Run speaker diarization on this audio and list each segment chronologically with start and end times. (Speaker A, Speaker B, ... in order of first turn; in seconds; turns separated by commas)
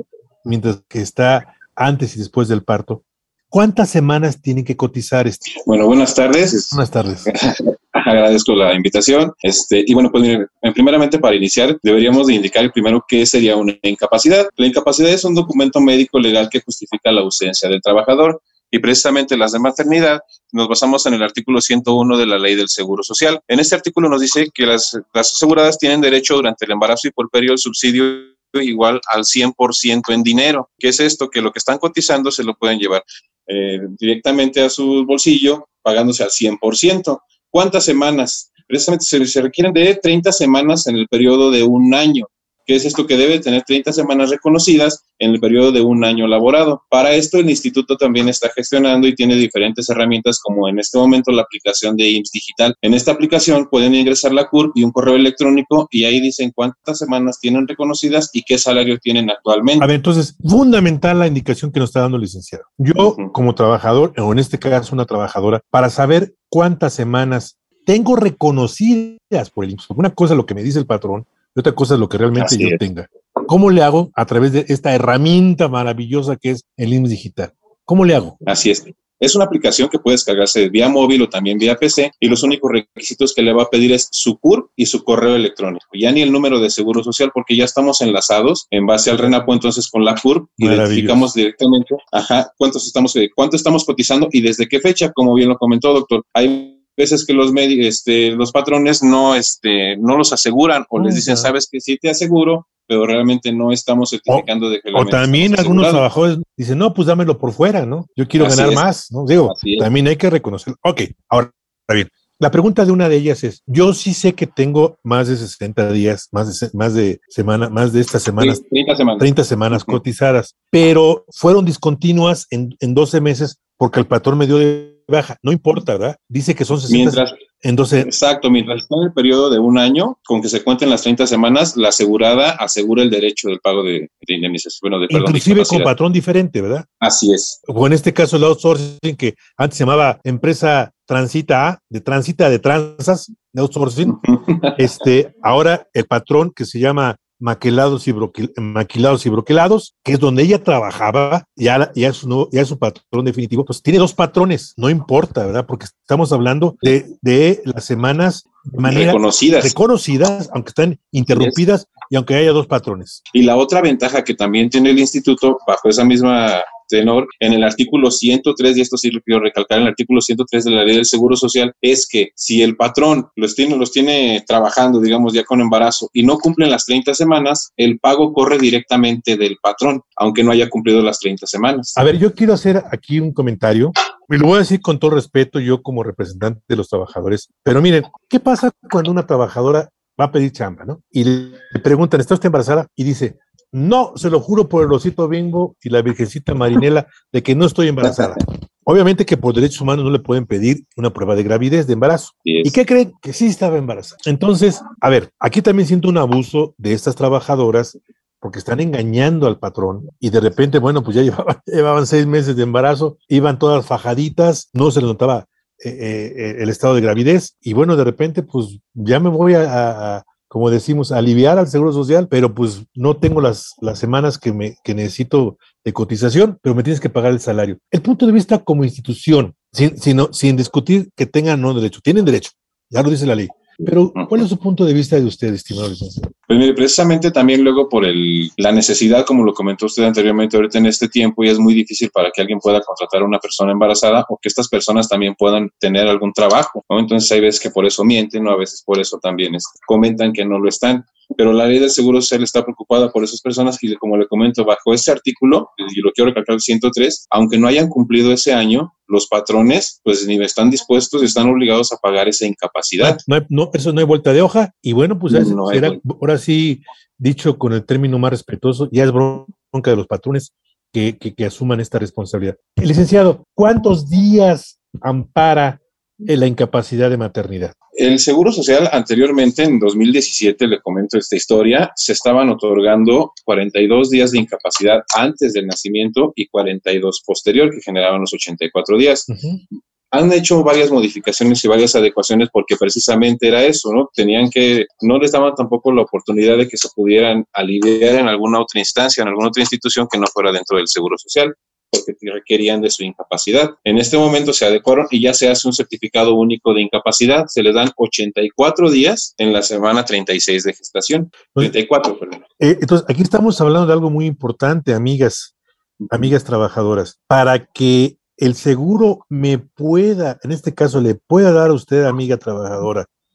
Speaker A: 0.4-5.4, Speaker B: 5.5-59.9, Speaker A: 6.7-7.3, Speaker A: 59.8-78.4, Speaker B: 63.0-63.3, Speaker B: 72.4-72.8, Speaker B: 78.5-106.0, Speaker A: 90.6-91.3, Speaker A: 101.0-101.5, Speaker A: 104.3-118.6, Speaker B: 108.4-108.8, Speaker B: 109.5-109.9, Speaker B: 118.4-120.0, Speaker A: 119.2-128.1, Speaker B: 126.9-127.4, Speaker B: 128.0-135.9, Speaker A: 135.1-136.8, Speaker B: 137.0-137.6, Speaker A: 137.7-144.2, Speaker B: 144.1-144.8, Speaker A: 144.8-163.2, Speaker B: 158.8-159.7, Speaker B: 161.3-161.6, Speaker B: 163.3-182.0, Speaker A: 181.9-236.3, Speaker B: 202.4-202.7, Speaker B: 234.1-234.4, Speaker B: 236.5-263.2, Speaker A: 263.0-277.7, Speaker B: 265.3-266.0, Speaker B: 278.0-289.3, Speaker A: 289.3-289.6, Speaker B: 290.1-312.4, Speaker A: 312.6-315.5, Speaker B: 316.0-316.3, Speaker A: 316.1-323.1